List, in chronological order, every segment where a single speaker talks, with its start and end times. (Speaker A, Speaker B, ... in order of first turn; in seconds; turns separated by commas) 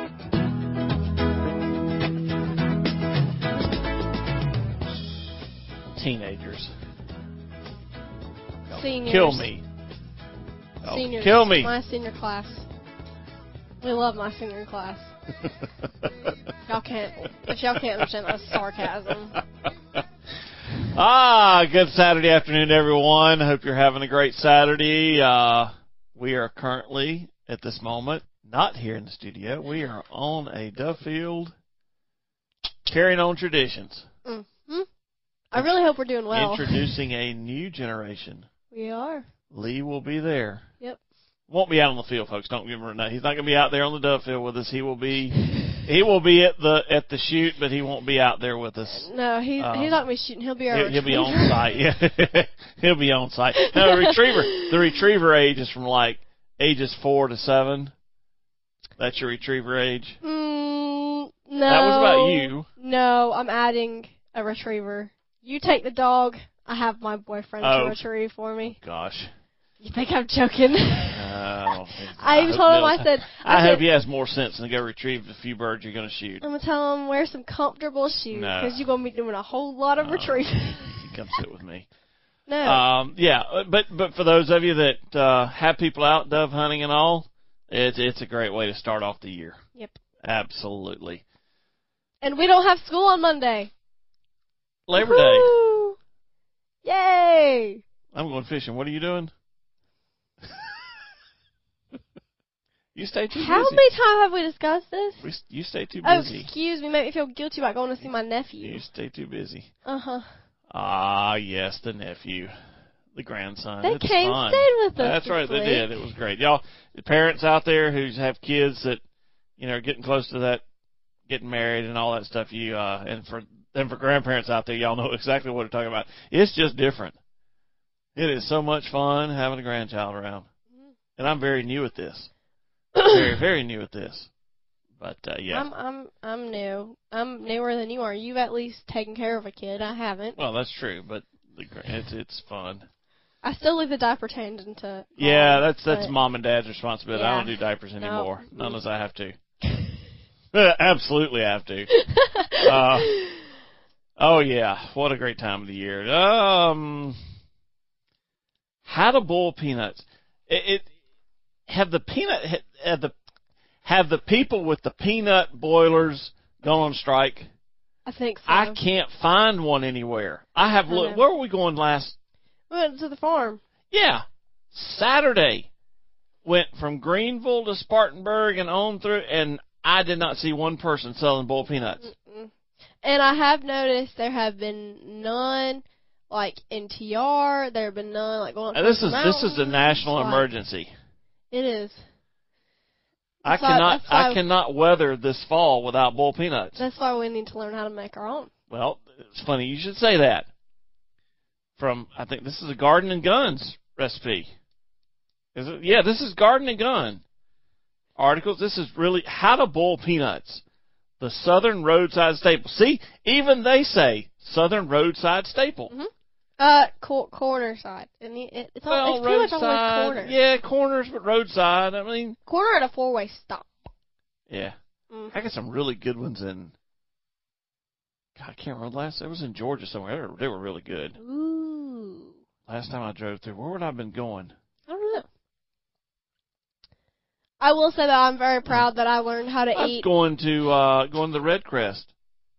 Speaker A: 5.9-6.7, Speaker B: 8.7-9.5, Speaker A: 8.7-9.6, Speaker A: 10.8-11.7, Speaker B: 10.8-12.7, Speaker B: 13.8-15.1, Speaker B: 16.7-19.4, Speaker A: 20.8-31.5, Speaker A: 32.9-34.0, Speaker B: 34.2-34.9, Speaker B: 35.5-36.9, Speaker A: 36.3-38.5, Speaker B: 38.7-39.2, Speaker A: 39.5-40.7, Speaker A: 41.5-50.0, Speaker B: 48.9-51.6, Speaker A: 50.7-57.9, Speaker B: 53.6-54.7, Speaker A: 59.0-60.2, Speaker B: 60.2-68.8, Speaker A: 61.6-62.7, Speaker A: 67.6-68.0, Speaker A: 68.6-69.3, Speaker B: 69.8-71.3, Speaker A: 71.1-76.4, Speaker B: 72.2-73.8, Speaker B: 76.4-81.0, Speaker A: 78.3-78.8, Speaker A: 80.0-81.9, Speaker B: 82.5-82.8, Speaker A: 82.6-89.6, Speaker A: 90.2-91.2, Speaker B: 92.2-93.7, Speaker A: 94.9-95.5, Speaker B: 95.0-96.0, Speaker B: 96.8-97.8, Speaker A: 98.1-99.3, Speaker A: 102.9-103.8, Speaker B: 103.3-105.3, Speaker A: 105.2-106.5, Speaker B: 106.0-108.8, Speaker A: 108.6-109.7, Speaker B: 109.8-110.3, Speaker A: 110.7-112.5, Speaker A: 113.1-119.0, Speaker B: 113.8-115.8, Speaker A: 119.6-120.6, Speaker A: 121.3-127.2, Speaker A: 128.2-130.5, Speaker A: 131.2-132.3, Speaker A: 133.0-134.3, Speaker A: 135.0-135.7, Speaker B: 135.5-140.4, Speaker A: 140.4-142.9, Speaker B: 143.4-146.1, Speaker A: 145.2-149.3, Speaker B: 147.1-148.8, Speaker A: 150.5-151.9, Speaker B: 151.9-153.4, Speaker A: 152.6-153.2, Speaker A: 154.2-157.2, Speaker A: 158.8-160.9, Speaker A: 161.7-163.1, Speaker A: 163.8-167.5, Speaker B: 168.1-168.8, Speaker A: 168.5-172.2, Speaker B: 170.9-171.2, Speaker B: 172.7-173.6, Speaker A: 173.9-175.7, Speaker A: 176.4-182.1, Speaker B: 182.0-182.5, Speaker B: 183.0-190.4, Speaker A: 188.7-190.9, Speaker B: 191.5-192.0, Speaker B: 193.4-194.4, Speaker A: 193.4-196.8, Speaker B: 196.8-198.5, Speaker A: 198.7-200.5, Speaker A: 201.8-204.5, Speaker A: 205.5-207.2, Speaker A: 208.2-210.6, Speaker A: 211.2-215.9, Speaker B: 215.9-220.3, Speaker A: 218.9-222.4, Speaker B: 222.4-223.7, Speaker A: 224.5-224.7, Speaker B: 225.1-225.3, Speaker A: 225.3-226.7, Speaker A: 228.3-231.2, Speaker B: 231.2-232.3, Speaker A: 232.7-234.5, Speaker B: 234.9-235.2, Speaker B: 237.6-240.1, Speaker A: 239.8-242.1